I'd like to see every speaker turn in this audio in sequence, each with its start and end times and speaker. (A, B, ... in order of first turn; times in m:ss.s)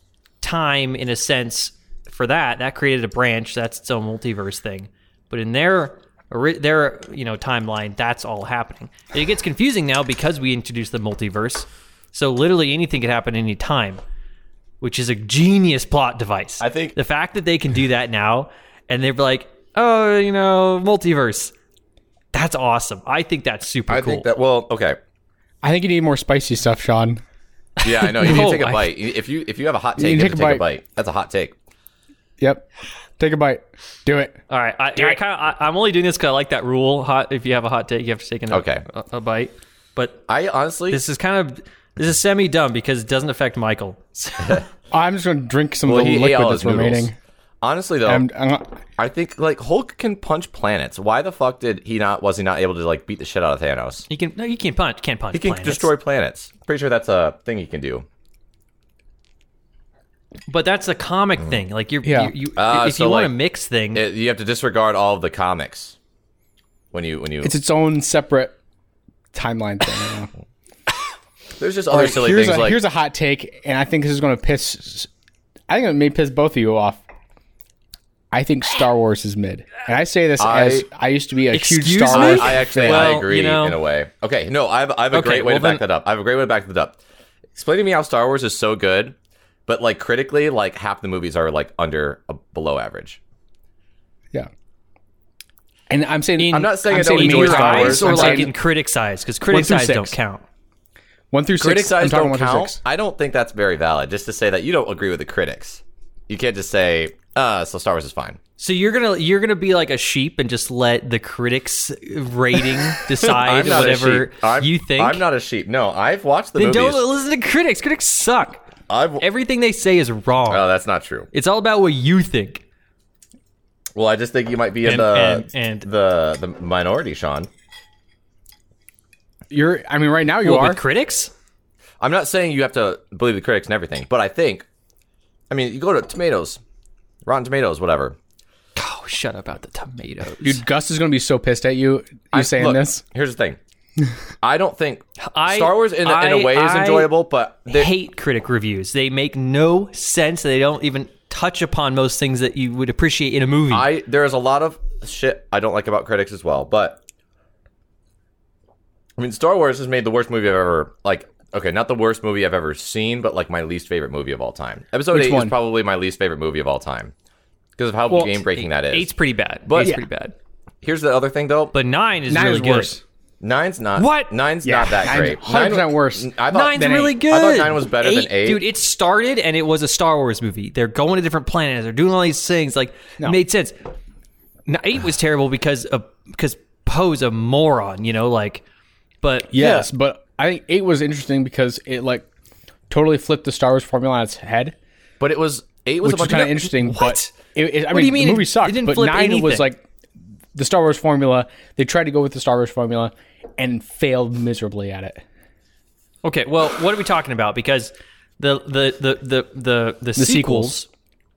0:00.4-0:14.0 A
0:14.8-0:21.5 A
0:16.6-0:17.0 B
0:22.3-0:24.3 A
0:23.9-0:25.0 B
0:25.6-0:27.2 C
0:27.8-0:28.9 A
0:27.8-0:31.5 B
0:28.2-0:28.6 C
0:30.0-0:30.6 C
0:32.4-0:32.7 C
0:33.2-0:34.4 C
0:34.5-0:40.2 A
0:38.5-0:38.8 B
0:40.3-0:41.0 B
0:40.9-0:44.6 A
0:44.9-0:47.2 C
0:45.9-0:47.1 B
0:47.6-0:48.3 B
0:48.0-0:48.8 C
0:49.0-0:54.1 B
0:54.1-0:55.9 A
0:55.3-0:58.0 B
1:00.5-1:04.0 A
1:02.0-1:02.3 C
1:02.6-1:03.4 B
1:03.9-1:06.0 B
1:06.9-1:07.6 B
1:07.4-1:08.6 C
1:09.3-1:10.3 C
1:11.6-1:12.8 B
1:11.9-1:15.1 C
1:15.7-1:17.0 C
1:18.3-1:23.2 C
1:20.4-1:20.9 B
1:21.5-1:23.8 A
1:22.1-1:27.0 B
1:25.1-1:25.8 A
1:27.6-1:29.2 B
1:29.7-1:33.2 B
1:35.9-1:38.5 C
1:36.4-1:38.5 B
1:36.4-1:40.4 A
1:39.5-1:40.2 C
1:41.3-1:42.8 C
1:41.6-1:48.4 B
1:48.6-1:55.2 A
1:53.2-1:57.1 B
1:56.6-1:58.6 A
1:58.9-1:59.2 B
1:59.2-2:00.7 A
2:00.5-2:01.3 B
2:01.3-2:02.6 A
2:04.0-2:07.5 B
2:04.8-2:05.9 A
2:09.5-2:10.8 C
2:10.4-2:11.3 A
2:12.0-2:14.6 B
2:15.5-2:16.6 B
2:17.2-2:18.2 B
2:18.8-2:20.6 A
2:20.4-2:23.0 C
2:22.3-2:23.6 B
2:24.4-2:27.9 B
2:25.2-2:27.1 A
2:27.7-2:33.9 A
2:33.7-2:37.0 B
2:39.2-2:47.1 B
2:45.1-2:45.5 C
2:47.8-2:49.1 B
2:48.1-2:50.3 A
2:49.7-2:50.0 B
2:50.8-2:51.7 B
2:51.7-2:53.0 A
2:52.3-2:53.0 C
2:53.4-2:58.6 B
2:54.0-2:54.4 A
2:54.6-2:57.2 C
2:56.5-3:03.8 A
3:04.7-3:08.6 A
3:09.2-3:09.9 A
3:09.5-3:12.3 C
3:12.9-3:14.8 C
3:15.2-3:16.8 B
3:16.0-3:19.8 C
3:16.8-3:17.3 A
3:17.9-3:19.7 A
3:20.5-3:25.2 C
3:26.2-3:30.9 A
3:30.2-3:30.8 C